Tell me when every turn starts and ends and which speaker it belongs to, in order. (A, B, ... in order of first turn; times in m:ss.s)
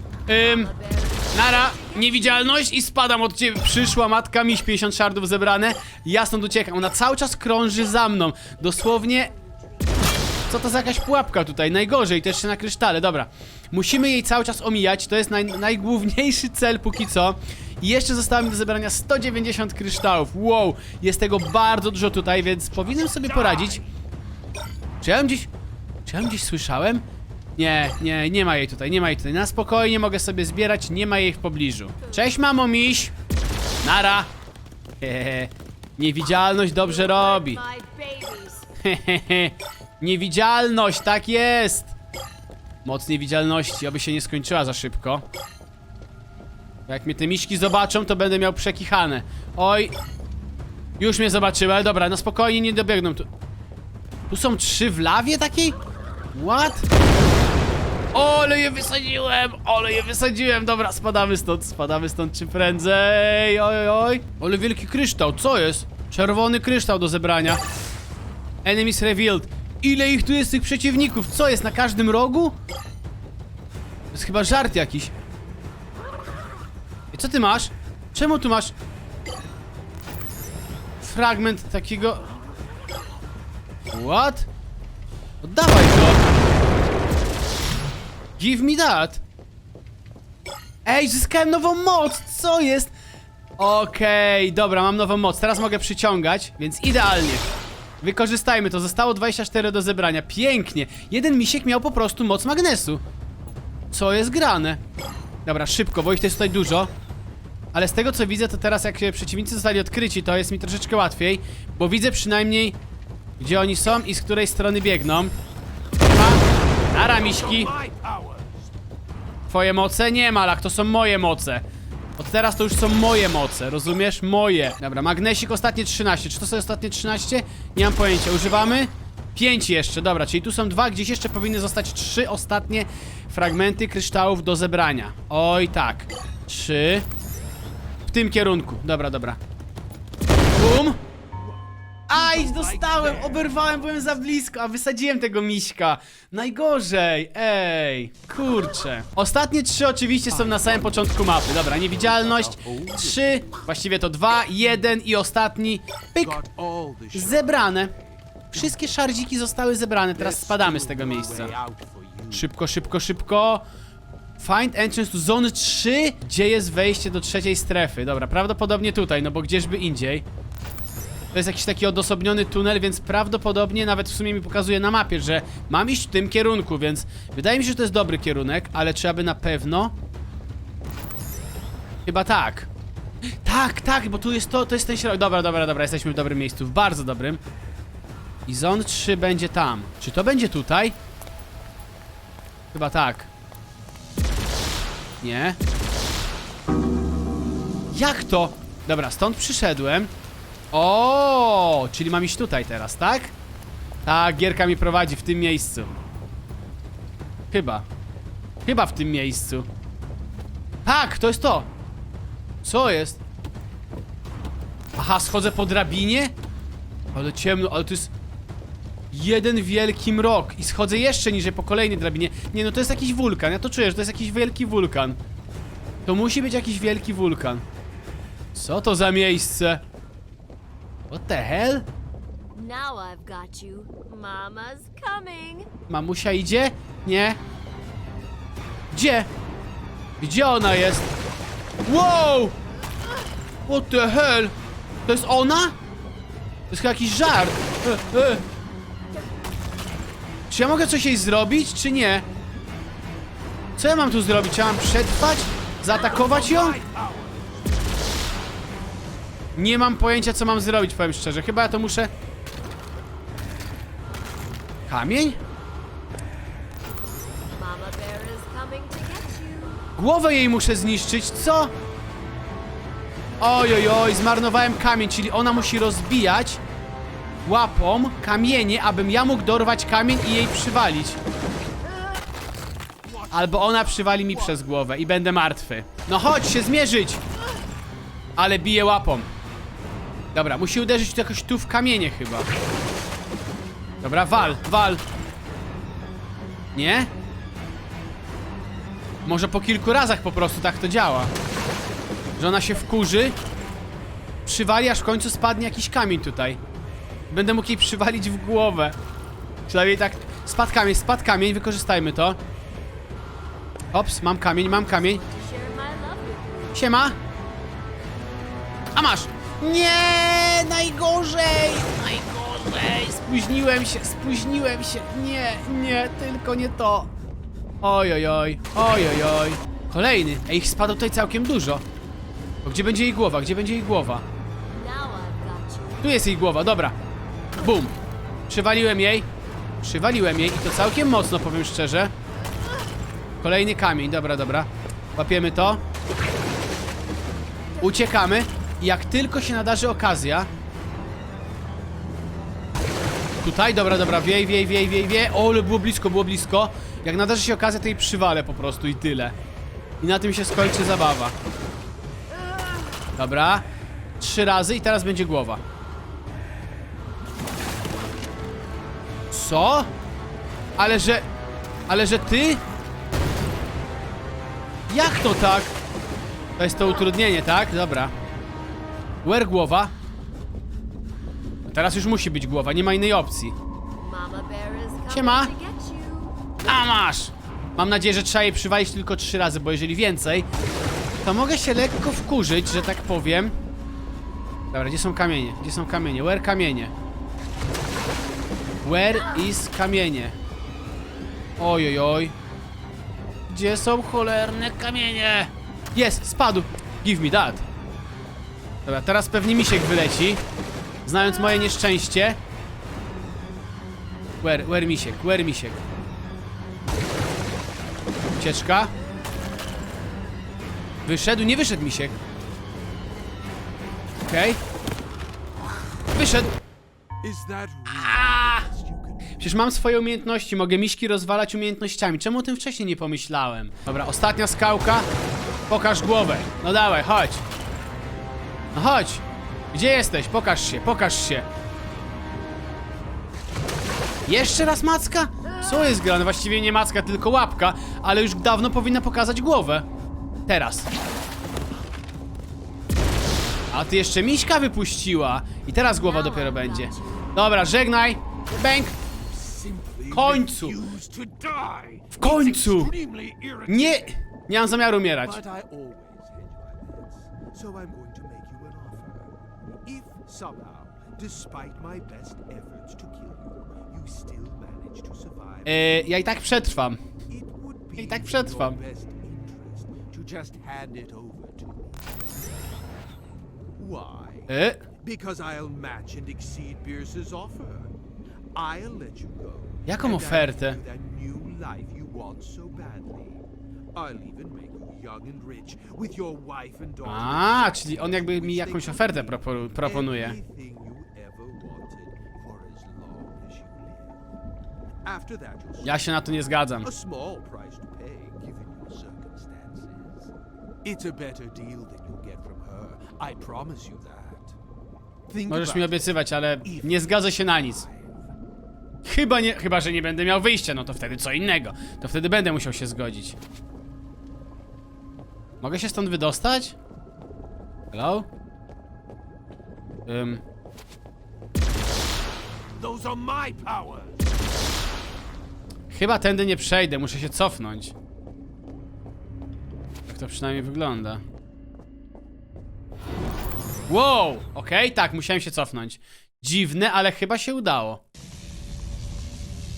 0:00.3-0:00.7 A
0:00.3-0:02.7 B
0:01.3-0:09.3 A
0:08.6-0:10.4 B
0:10.5-0:23.8 A
0:22.2-0:23.9 C
0:25.0-0:25.5 A
0:26.0-0:27.0 A
0:27.6-0:33.1 A
0:32.0-0:32.4 B
0:33.8-0:34.3 A
0:35.0-0:37.6 A
0:36.7-0:38.7 B
0:38.8-0:41.9 A
0:42.8-0:45.2 A
0:46.9-0:49.9 A
0:51.0-0:53.3 A
0:54.3-0:55.8 A
0:56.3-0:56.9 A
0:58.1-1:07.6 A
1:08.6-1:12.5 A
1:14.1-1:15.1 A
1:17.1-1:18.7 A
1:21.0-1:22.3 A
1:23.9-1:24.5 A
1:25.4-1:26.2 A
1:28.4-1:29.2 A
1:30.8-1:32.9 A
1:33.6-1:37.4 A
1:38.0-1:43.0 A
1:43.9-1:44.8 A
1:45.4-1:46.9 A
1:47.7-1:52.8 A
1:53.4-1:55.3 A
1:56.0-1:57.7 A
1:57.0-1:58.8 C
1:59.5-2:01.6 A
2:02.2-2:17.1 A
2:18.1-2:19.4 A
2:20.6-2:21.0 A
2:21.3-2:24.0 C
2:22.1-2:36.4 A
2:30.3-2:33.7 C
2:36.2-2:39.1 C
2:37.1-2:37.9 A
2:38.5-2:41.6 A
2:40.1-2:42.5 C
2:42.3-2:43.6 A
2:44.4-2:50.2 A
2:51.3-2:59.9 A
3:02.0-3:02.7 A
3:03.4-3:07.4 A
3:08.4-3:11.0 A
3:12.7-3:13.3 A
3:15.2-3:15.6 A
3:17.9-3:20.1 A
3:20.7-3:23.3 A
3:24.0-3:25.9 A
3:27.5-3:27.8 A
3:28.6-3:29.7 A
3:30.8-3:31.7 A
3:32.6-3:33.2 A
3:35.0-3:36.3 A
3:37.1-3:38.1 A
3:39.1-3:45.2 A
3:46.0-3:47.6 A
3:48.5-3:49.8 A
3:51.1-3:51.9 A
3:52.5-3:55.7 B
3:55.9-3:57.4 A
3:58.9-3:59.3 A
4:00.2-4:01.1 A
4:01.8-4:02.6 A
4:03.7-4:04.5 A
4:05.1-4:05.7 A
4:06.7-4:08.4 A
4:10.5-4:12.2 A
4:13.8-4:16.8 A
4:15.9-4:18.2 C
4:19.6-4:22.1 A
4:24.9-4:25.4 A
4:27.5-4:29.9 B
4:30.0-4:31.7 A
4:33.4-4:36.6 A
4:37.4-4:41.2 A
4:43.0-4:44.7 C
4:43.3-4:47.2 A
4:48.4-4:49.3 A
4:50.3-4:52.5 A
4:54.0-4:55.0 A
4:56.7-4:57.1 A
4:59.2-5:01.3 A
5:02.4-5:03.4 A
5:04.4-5:06.6 A
5:07.3-5:09.0 A
5:09.7-5:12.4 A
5:13.9-5:15.2 A
5:14.6-5:17.0 B
5:16.7-5:17.2 A
5:18.9-5:27.1 A
5:27.8-5:31.8 A
5:32.6-5:34.2 A
5:34.7-5:36.1 B
5:36.0-5:36.9 A
5:37.6-5:37.9 A
5:38.5-5:39.3 A
5:39.8-5:42.1 A
5:43.4-5:45.8 A
5:47.8-5:50.5 A
5:53.4-5:59.4 A
6:00.0-6:01.3 A
6:03.2-6:03.6 A
6:04.2-6:05.6 A
6:09.3-6:09.9 A
6:10.8-6:11.3 A
6:11.9-6:12.6 A
6:14.9-6:15.7 A
6:16.6-6:18.1 A
6:19.2-6:19.9 A
6:21.6-6:23.6 A
6:24.0-6:26.4 B
6:25.1-6:25.5 A
6:26.6-6:30.5 A
6:31.2-6:33.6 A
6:34.7-6:36.9 A
6:38.8-6:40.4 A
6:41.6-6:42.3 A
6:43.5-6:47.6 A
6:48.8-6:50.4 A
6:51.0-6:52.4 A
6:54.4-6:55.8 A
6:58.4-6:58.9 A
7:01.0-7:02.2 A
7:04.1-7:04.6 A
7:06.1-7:06.6 A
7:07.2-7:09.6 C
7:07.9-7:08.7 A
7:09.4-7:15.1 A
7:15.7-7:17.4 A
7:18.7-7:21.5 A
7:24.3-7:29.8 A
7:30.5-7:30.9 A
7:33.7-7:39.0 A
7:35.9-7:37.4 B
7:39.0-7:44.2 C
7:40.1-7:40.8 A
7:42.1-7:42.9 A
7:43.7-7:45.4 A
7:45.2-7:56.0 C
7:55.6-7:57.0 A
7:57.3-8:02.3 C
7:58.0-7:58.8 A
8:03.8-8:07.9 C
8:04.5-8:04.8 A
8:08.5-8:24.3 C
8:09.8-8:10.8 A
8:17.0-8:20.4 A
8:25.0-8:26.2 C
8:25.8-8:26.9 A
8:26.8-8:30.3 C
8:30.8-8:34.6 C
8:35.3-8:38.3 C
8:35.5-8:37.8 A
8:39.0-8:43.4 A
8:45.6-8:46.8 A
8:47.9-8:48.3 A
8:50.0-8:50.4 A
8:52.8-8:54.3 C
8:55.9-8:57.9 A
9:00.1-9:01.2 A
9:03.9-9:08.0 A